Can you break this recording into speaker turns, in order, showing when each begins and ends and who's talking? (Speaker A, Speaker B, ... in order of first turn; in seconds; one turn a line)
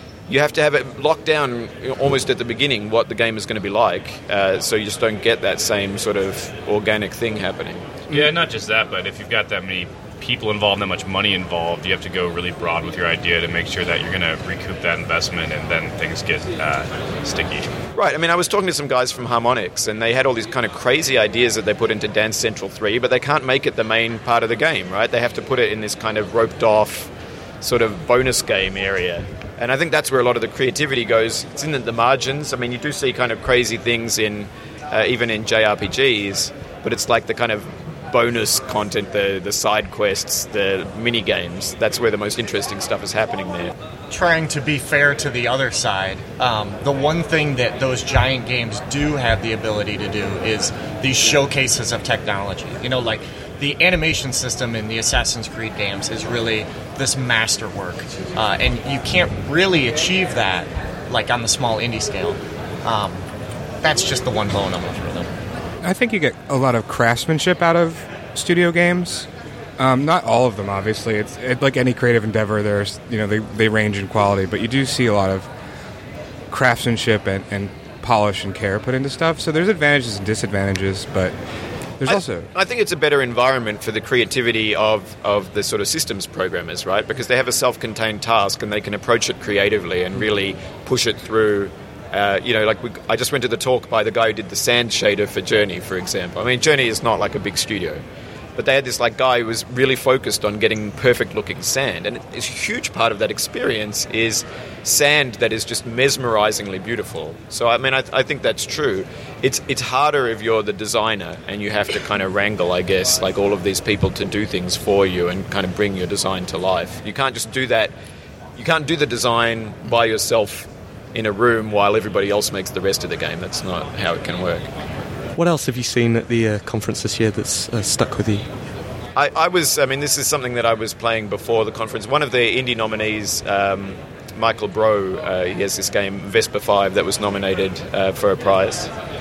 Speaker A: 0.3-8.0
Speaker B: 8.1-17.8
Speaker A: 17.9-43.8
Speaker C: 44.1-63.2
Speaker C: 63.8-65.3
Speaker D: 65.8-75.5
Speaker D: 76.5-81.3
Speaker D: 82.0-82.5
Speaker A: 82.0-98.0
Speaker A: 98.6-117.9
Speaker A: 118.6-124.7
Speaker E: 125.4-128.5
Speaker A: 129.2-138.9